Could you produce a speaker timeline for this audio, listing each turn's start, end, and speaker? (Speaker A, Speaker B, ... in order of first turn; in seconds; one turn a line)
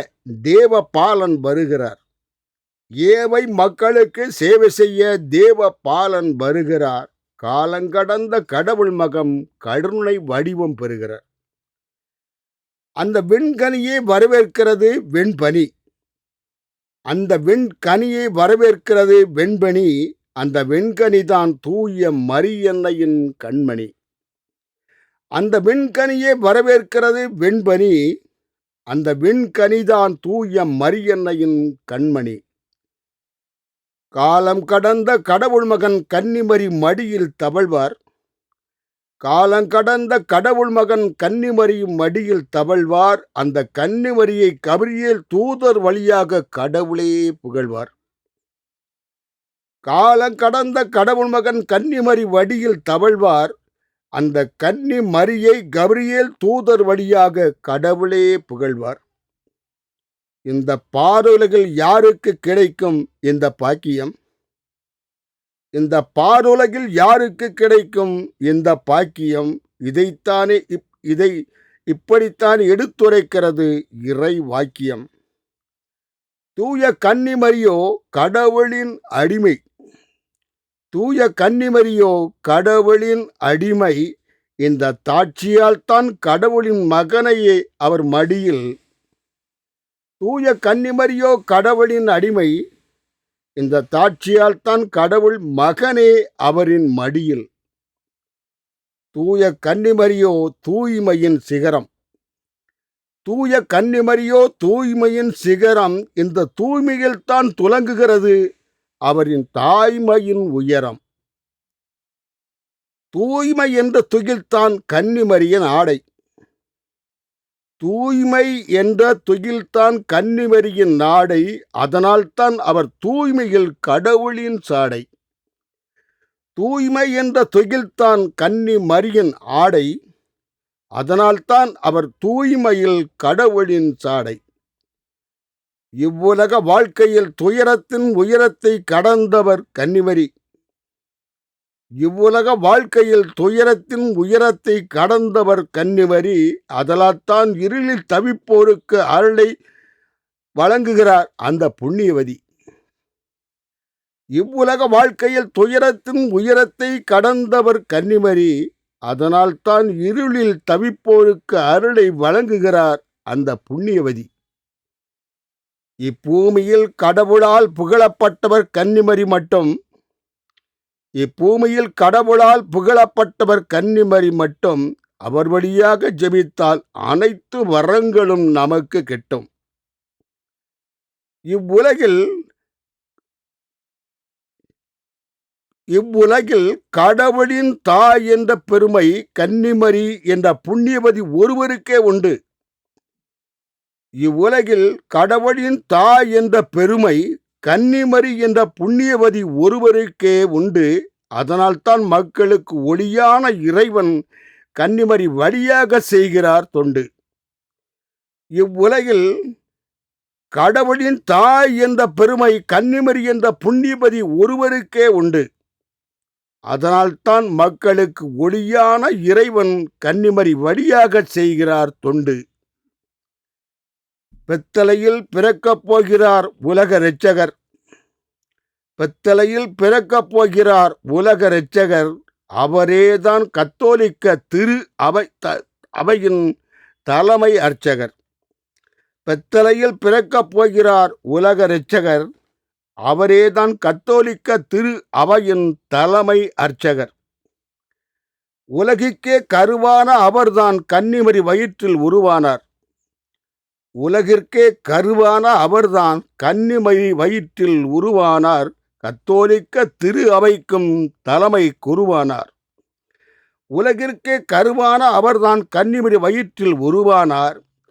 Speaker A: 0.5-2.0
Speaker A: 3.0-11.2
Speaker A: 13.0-15.7
Speaker A: 17.1-23.9
Speaker A: 25.4-28.0
Speaker A: 28.9-32.4
Speaker A: 34.2-37.9
Speaker A: 39.2-47.9
Speaker A: 49.9-53.5
Speaker A: 54.2-59.0
Speaker A: 60.5-64.1
Speaker A: 65.8-71.3
Speaker A: 71.9-75.1
Speaker A: 76.6-79.6
Speaker A: 80.9-84.0
Speaker A: 84.6-88.7
Speaker A: 90.2-92.5
Speaker A: 93.6-97.5
Speaker A: 99.1-101.9
Speaker A: 103.2-108.3
Speaker A: 109.1-111.0
Speaker A: 113.1-116.0
Speaker A: 117.8-125.1
Speaker A: 126.6-129.9
Speaker A: 131.0-134.4
Speaker A: 136.0-140.3
Speaker A: 142.0-149.5
Speaker A: 150.6-152.4
Speaker A: 154.4-158.5
Speaker A: 159.1-164.3
Speaker A: 166.1-169.7
Speaker A: 171.2-179.5
Speaker A: 181.5-182.2
Speaker A: 185.9-192.3
Speaker A: 194.2-204.1
Speaker A: 204.8-207.1
Speaker A: 208.6-209.2
Speaker A: 210.6-215.4
Speaker A: 216.7-222.4
Speaker A: 224.5-227.5
Speaker A: 229.0-236.4
Speaker A: 237.1-238.1
Speaker A: 239.3-242.3
Speaker A: 243.1-247.1
Speaker A: 248.8-252.6
Speaker A: 254.0-262.5
Speaker A: 263.8-267.6